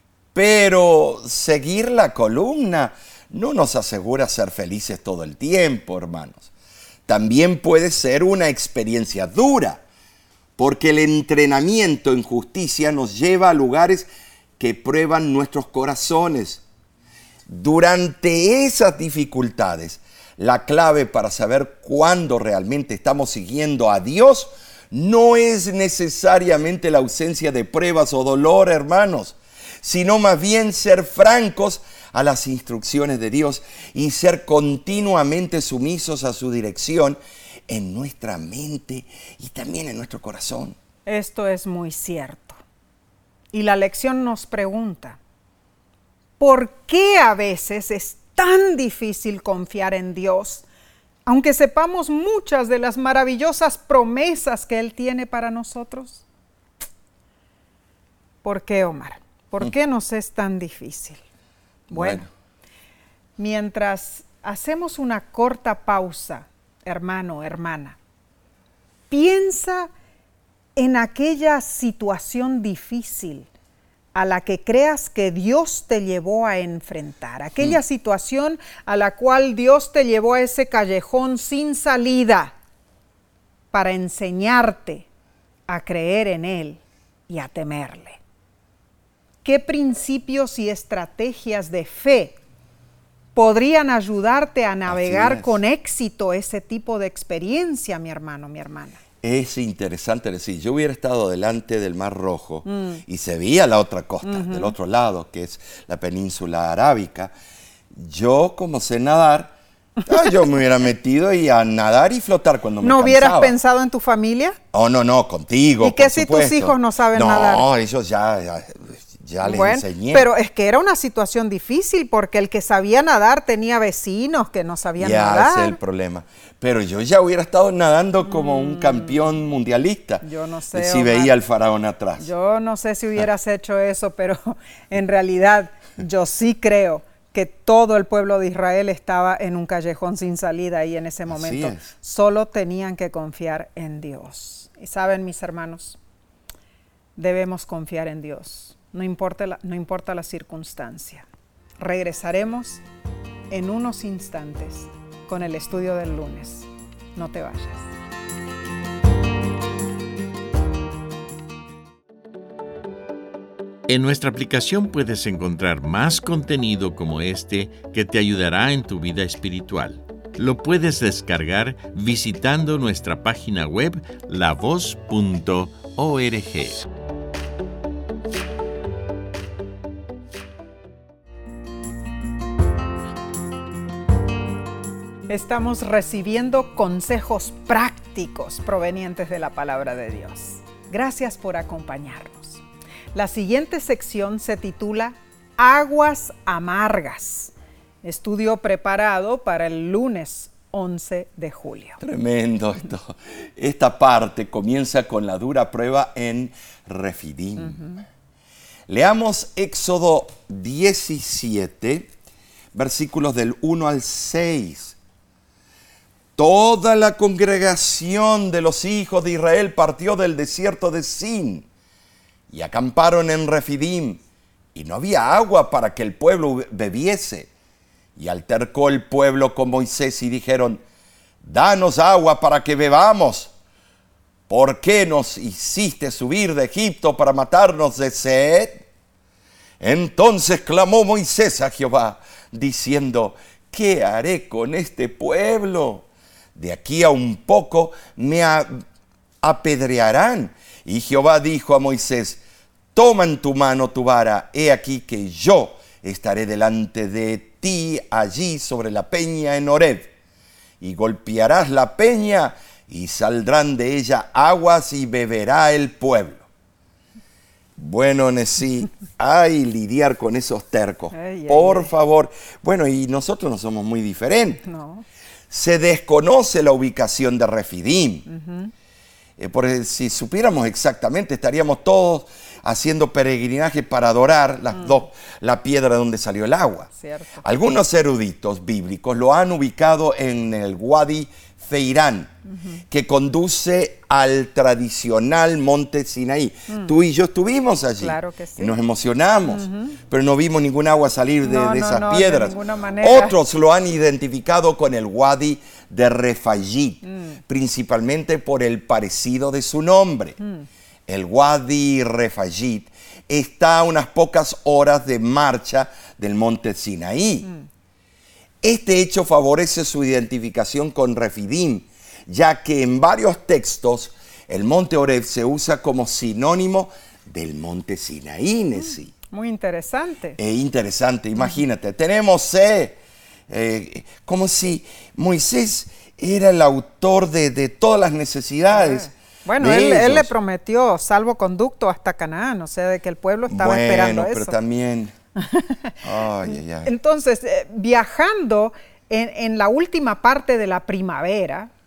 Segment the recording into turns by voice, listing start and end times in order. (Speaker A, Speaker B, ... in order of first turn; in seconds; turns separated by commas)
Speaker A: 0.3-6.5, Speaker A: 7.1-9.8, Speaker A: 10.6-14.1, Speaker A: 14.6-16.6, Speaker A: 17.5-40.8, Speaker B: 41.1-42.6, Speaker B: 43.5-45.2, Speaker B: 46.4-50.6, Speaker B: 51.3-56.2, Speaker B: 58.4-61.2, Speaker A: 61.9-62.3, Speaker B: 61.9-62.2, Speaker B: 63.4-68.0, Speaker B: 69.1-69.9, Speaker B: 70.8-73.5, Speaker B: 74.1-82.5, Speaker B: 83.7-85.0, Speaker B: 85.7-88.2, Speaker B: 89.4-92.4, Speaker B: 93.3-99.0, Speaker A: 94.9-95.6, Speaker A: 99.2-107.3, Speaker B: 102.7-103.0, Speaker B: 104.2-104.7, Speaker A: 107.9-113.5, Speaker B: 112.8-114.6, Speaker A: 114.7-120.3, Speaker B: 115.8-117.7, Speaker B: 119.4-125.8, Speaker A: 125.0-132.3, Speaker B: 130.2-131.3, Speaker B: 132.2-146.0, Speaker A: 141.3-141.9, Speaker B: 147.2-151.3, Speaker B: 151.8-152.8, Speaker B: 153.5-157.9, Speaker C: 163.9-176.9, Speaker B: 185.3-192.6, Speaker B: 193.1-197.5, Speaker B: 198.0-202.0, Speaker A: 202.0-207.9, Speaker B: 207.7-208.0, Speaker A: 208.9-212.1, Speaker A: 212.7-215.0, Speaker A: 216.4-221.7, Speaker A: 222.5-224.2, Speaker A: 224.7-227.5, Speaker A: 228.2-230.8, Speaker A: 231.4-233.5, Speaker A: 234.5-238.8, Speaker A: 239.8-248.7, Speaker A: 249.4-252.4, Speaker A: 252.9-260.1, Speaker A: 260.8-266.5, Speaker A: 267.8-274.6, Speaker B: 271.1-271.9, Speaker B: 274.6-275.1, Speaker A: 275.5-278.3, Speaker B: 278.3-278.7, Speaker A: 279.4-286.9, Speaker B: 287.0-287.4, Speaker A: 287.4-292.3, Speaker A: 292.9-310.4, Speaker B: 298.0-298.7, Speaker B: 299.5-300.0, Speaker B: 301.4-303.4, Speaker B: 307.0-307.4, Speaker A: 311.1-317.5, Speaker A: 318.6-329.1, Speaker B: 329.3-330.4, Speaker A: 330.4-333.0, Speaker A: 333.5-339.1, Speaker B: 338.7-344.6, Speaker A: 339.6-340.3, Speaker A: 343.5-345.1, Speaker B: 345.4-346.0, Speaker A: 346.0-346.9, Speaker B: 346.8-351.7